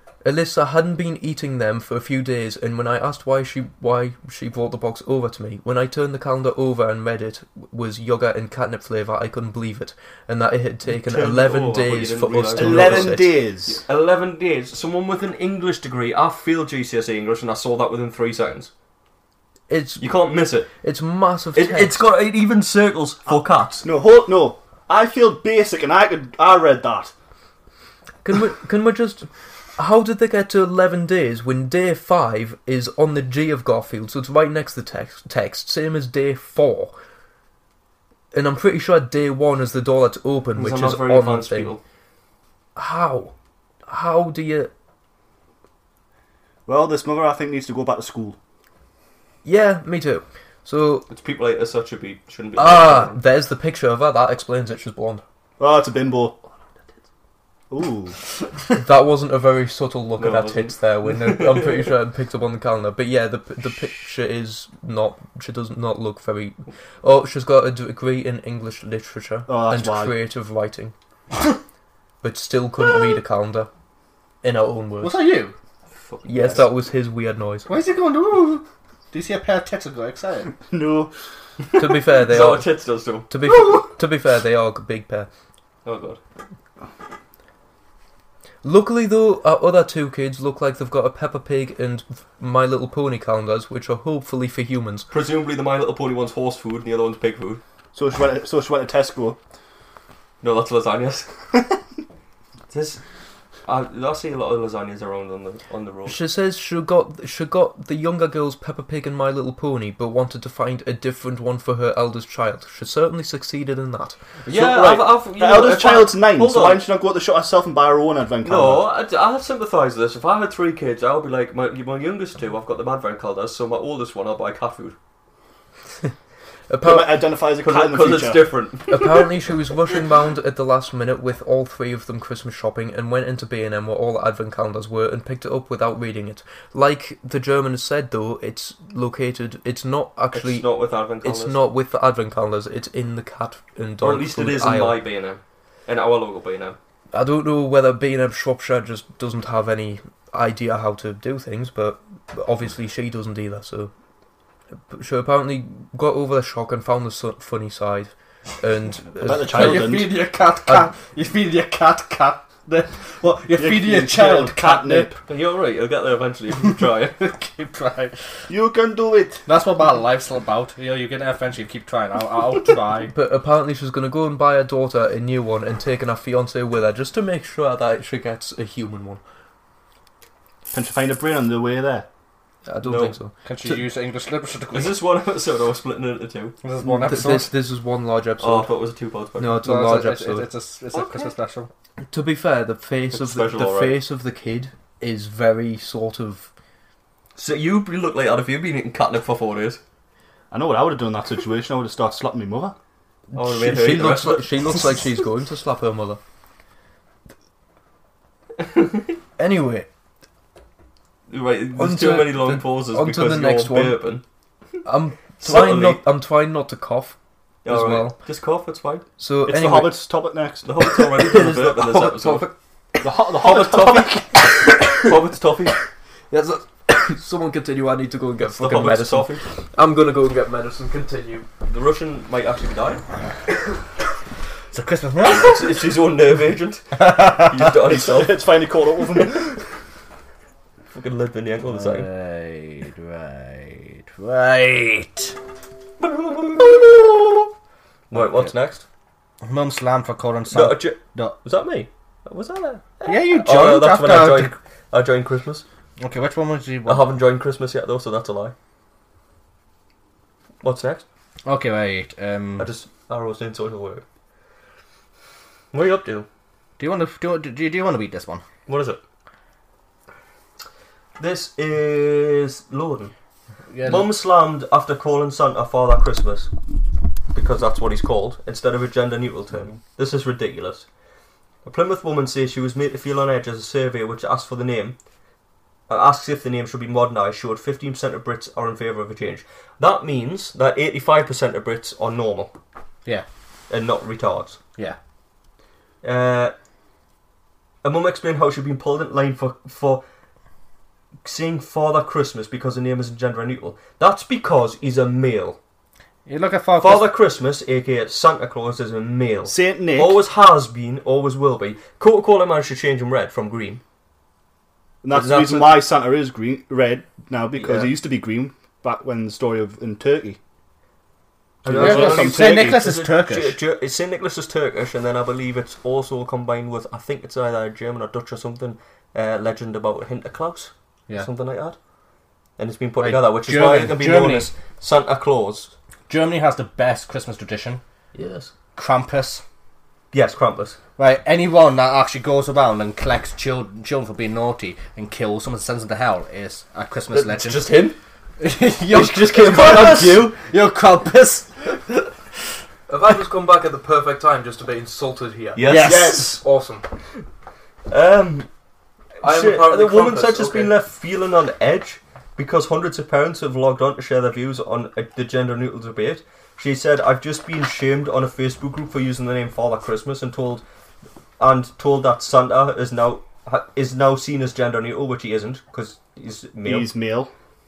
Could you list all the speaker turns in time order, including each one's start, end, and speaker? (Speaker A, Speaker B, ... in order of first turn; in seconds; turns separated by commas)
Speaker A: 0.2-13.3, Speaker B: 10.9-18.7, Speaker C: 12.5-13.8, Speaker A: 19.7-20.1, Speaker B: 20.0-20.7, Speaker A: 20.8-22.0, Speaker B: 21.6-23.9, Speaker C: 23.8-27.1, Speaker A: 28.2-36.9, Speaker A: 38.3-41.8, Speaker B: 40.6-41.8, Speaker A: 42.8-43.3, Speaker A: 43.9-44.7, Speaker C: 46.7-48.4, Speaker A: 49.4-51.1, Speaker B: 51.1-53.2, Speaker A: 52.6-55.2, Speaker C: 55.6-56.4, Speaker C: 57.7-58.2, Speaker A: 58.8-70.9, Speaker B: 60.2-61.9, Speaker C: 69.5-70.2, Speaker A: 72.2-73.7, Speaker A: 74.4-75.2, Speaker D: 75.0-75.5, Speaker B: 76.0-76.7, Speaker A: 76.3-77.7, Speaker D: 77.7-80.6, Speaker C: 80.7-81.1, Speaker A: 81.8-82.7, Speaker B: 81.8-83.3, Speaker A: 83.3-85.3, Speaker B: 85.8-86.2, Speaker A: 88.6-95.1, Speaker B: 95.1-97.6, Speaker C: 97.9-99.4, Speaker B: 100.4-101.7, Speaker B: 102.7-103.0, Speaker B: 103.7-106.2, Speaker A: 106.1-114.2, Speaker B: 114.5-116.8, Speaker C: 114.5-119.0, Speaker B: 118.4-125.0, Speaker A: 126.7-127.2, Speaker C: 126.8-128.6, Speaker B: 127.6-129.3, Speaker A: 128.9-140.7, Speaker B: 140.3-141.6, Speaker A: 141.2-145.0, Speaker B: 144.0-146.8, Speaker A: 147.1-153.9, Speaker A: 154.9-160.1, Speaker C: 159.2-160.2, Speaker D: 159.3-165.1, Speaker C: 163.5-165.2, Speaker B: 165.3-167.2, Speaker D: 167.2-168.2, Speaker C: 168.5-169.4, Speaker D: 169.5-173.1, Speaker A: 173.1-179.2, Speaker C: 180.7-182.1, Speaker A: 182.7-183.3, Speaker B: 182.8-183.2, Speaker D: 183.4-185.0, Speaker B: 184.7-186.6, Speaker D: 186.6-187.5, Speaker A: 186.8-188.7, Speaker B: 188.4-189.6, Speaker A: 189.4-190.5, Speaker D: 189.6-191.7, Speaker B: 190.9-191.3, Speaker A: 192.1-196.5, Speaker B: 193.1-194.0, Speaker B: 197.4-199.8, Speaker C: 200.5-202.8, Speaker A: 203.3-206.2, Speaker B: 203.3-204.9, Speaker B: 208.6-208.9, Speaker A: 209.4-209.9, Speaker B: 211.3-214.2, Speaker A: 211.8-214.0, Speaker A: 214.8-218.2, Speaker B: 215.4-216.0, Speaker B: 217.6-219.1, Speaker A: 219.2-220.0, Speaker C: 219.5-220.7, Speaker B: 220.7-222.5, Speaker A: 221.2-225.1, Speaker C: 223.0-223.9, Speaker B: 223.3-225.8, Speaker A: 226.3-231.5, Speaker B: 228.5-229.4, Speaker B: 231.7-233.0, Speaker D: 234.7-235.6, Speaker B: 235.2-238.4, Speaker D: 237.0-237.6, Speaker C: 237.9-239.6, Speaker B: 240.9-242.1, Speaker D: 241.7-245.3, Speaker B: 246.0-247.5, Speaker B: 248.1-248.8, Speaker D: 248.1-248.5, Speaker D: 249.4-251.4, Speaker B: 250.5-255.7, Speaker D: 253.1-254.5, Speaker D: 256.0-257.1, Speaker B: 256.9-258.5, Speaker B: 260.6-261.1, Speaker D: 261.4-262.7, Speaker B: 262.6-264.0, Speaker B: 265.7-266.3, Speaker D: 266.8-268.4, Speaker B: 268.7-269.0, Speaker B: 271.2-273.1, Speaker D: 273.7-274.1, Speaker B: 273.9-276.5, Speaker B: 277.3-280.9, Speaker B: 281.6-285.0, Speaker B: 285.9-292.5, Speaker B: 293.7-294.6, Speaker B: 296.0-296.5, Speaker B: 297.8-300.0, Speaker B: 301.2-305.6, Speaker D: 306.3-307.1, Speaker B: 306.8-313.8, Speaker C: 309.4-310.2, Speaker C: 315.0-320.4, Speaker B: 315.1-315.8, Speaker C: 321.6-322.8, Speaker B: 321.6-331.8, Speaker D: 321.7-323.6, Speaker B: 332.6-335.7, Speaker D: 333.0-334.5, Speaker D: 336.1-337.8, Speaker B: 338.1-338.5, Speaker D: 338.8-339.4, Speaker B: 340.1-340.8, Speaker D: 341.0-347.8, Speaker B: 347.1-348.0, Speaker D: 348.4-351.6, Speaker B: 348.9-350.4, Speaker A: 352.9-356.8, Speaker B: 355.6-356.4, Speaker D: 355.6-356.4, Speaker B: 357.9-358.5, Speaker B: 359.2-370.6, Speaker A: 359.2-360.7, Speaker B: 371.4-376.9, Speaker C: 376.6-377.3